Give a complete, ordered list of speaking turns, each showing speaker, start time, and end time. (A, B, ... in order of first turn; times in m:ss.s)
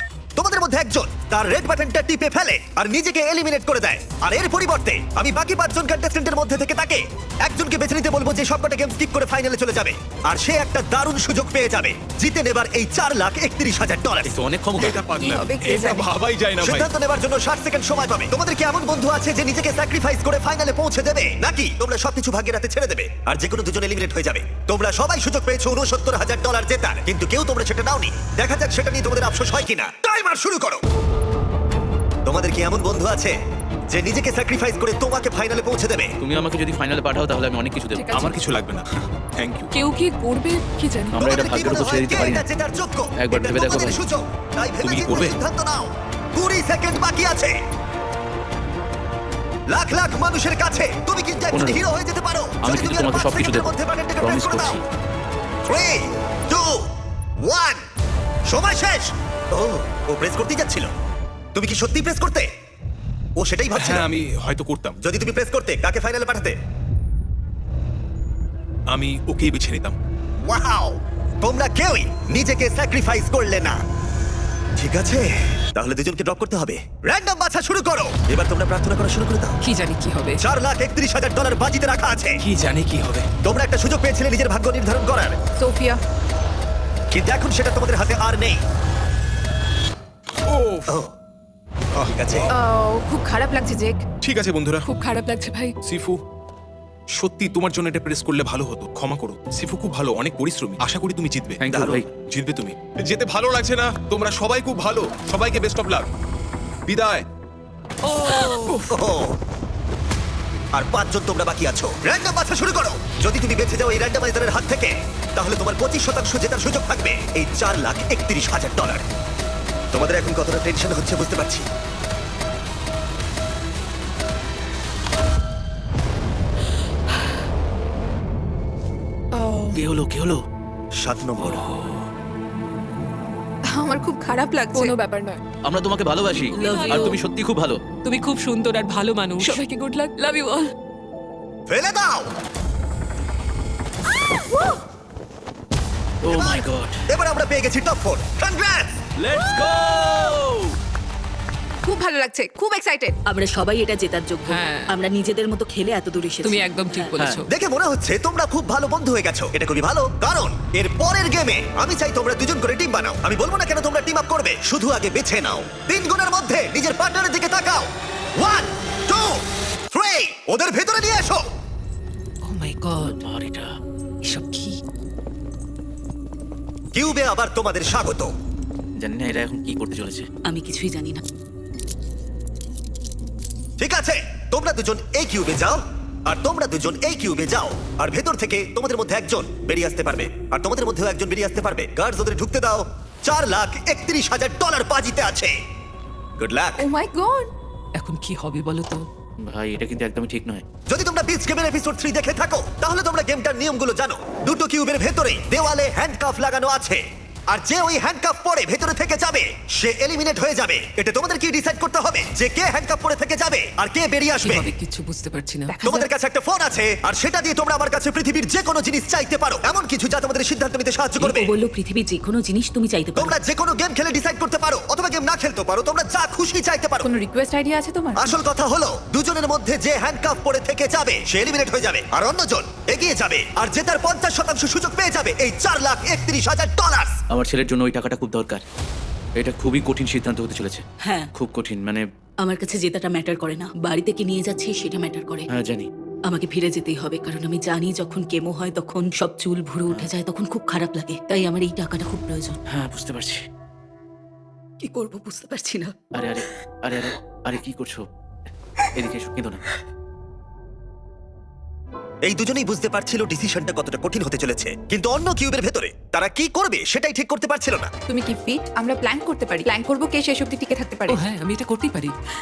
0:00.4-0:14.4 A
0:14.3-0:15.0 B
0:14.8-0:16.9 C
0:14.8-0:16.1 D
0:16.6-0:30.8 A
0:32.3-0:33.3 A
0:33.9-0:36.1 A
0:36.2-0:38.3 B
0:38.0-0:38.4 D
0:38.1-0:39.7 C
0:39.7-0:41.2 D
0:41.1-0:42.4 B
0:41.2-0:47.6 A
0:43.2-0:44.0 B
0:44.8-0:45.4 C
0:49.7-0:54.8 A
0:51.5-0:51.8 B
0:52.6-0:54.8 B
0:55.7-0:56.8 A
0:57.4-0:57.8 A
0:58.5-1:00.9 A
1:01.6-1:02.5 A
1:03.4-1:04.1 A
1:03.8-1:05.0 C
1:05.0-1:06.6 A
1:08.9-1:10.0 C
1:10.4-1:13.8 A
1:14.8-1:19.6 A
1:19.6-1:20.4 E
1:20.4-1:22.4 A
1:22.4-1:23.3 C
1:23.4-1:25.4 A
1:25.6-1:26.0 D
1:27.1-1:28.6 A
1:30.5-1:31.0 C
1:30.9-1:31.1 A
1:32.0-1:32.5 C
1:32.1-1:32.5 A
1:32.5-1:34.0 D
1:34.2-1:34.9 C
1:34.9-1:35.7 D
1:35.8-1:36.2 C
1:37.2-1:46.1 C
1:41.6-1:42.1 B
1:41.7-1:42.0 A
1:46.9-1:47.2 C
1:48.2-1:48.8 E
1:48.9-1:49.4 A
1:50.8-1:59.1 A
1:59.9-2:01.7 A
2:09.3-2:09.8 D
2:09.7-2:10.4 B
2:11.0-2:11.7 A
2:11.4-2:12.0 B
2:13.7-2:14.9 D
2:14.7-2:15.4 F
2:15.6-2:17.8 B
2:16.6-2:17.0 F
2:16.6-2:17.2 E
2:18.0-2:19.6 E
2:19.5-2:20.7 F
2:21.7-2:22.3 A
2:26.2-2:27.0 B
2:26.3-2:28.9 A
2:29.2-2:30.8 B
2:31.8-2:33.2 D
2:33.3-2:37.2 G
2:34.5-2:34.9 E
2:36.4-2:37.5 E
2:37.2-2:37.4 B
2:37.5-2:51.5 A
2:52.4-2:53.2 E
2:53.0-2:53.7 B
2:54.3-2:54.8 E
2:57.0-2:58.3 A
2:59.0-3:00.3 B
3:00.5-3:01.2 G
3:03.8-3:15.6 A
3:16.4-3:16.9 A
3:16.8-3:17.5 D
3:18.0-3:19.1 E
3:19.4-3:20.6 B
3:20.9-3:34.7 A
3:34.4-3:35.8 E
3:35.7-3:36.1 D
3:35.8-3:41.5 A
3:41.2-3:43.4 G
3:43.2-3:47.1 A
3:47.0-3:48.4 D
3:48.2-3:57.2 A
3:57.3-3:58.6 B
3:59.4-4:00.8 B
4:01.0-4:01.3 G
4:01.4-4:02.0 B
4:02.4-4:05.5 G
4:05.5-4:05.9 B
4:06.3-4:12.6 G
4:12.7-4:13.4 B
4:14.8-4:15.9 G
4:16.2-4:18.1 B
4:19.0-4:19.6 B
4:22.3-4:27.9 A
4:28.1-4:31.2 D
4:31.1-4:32.1 E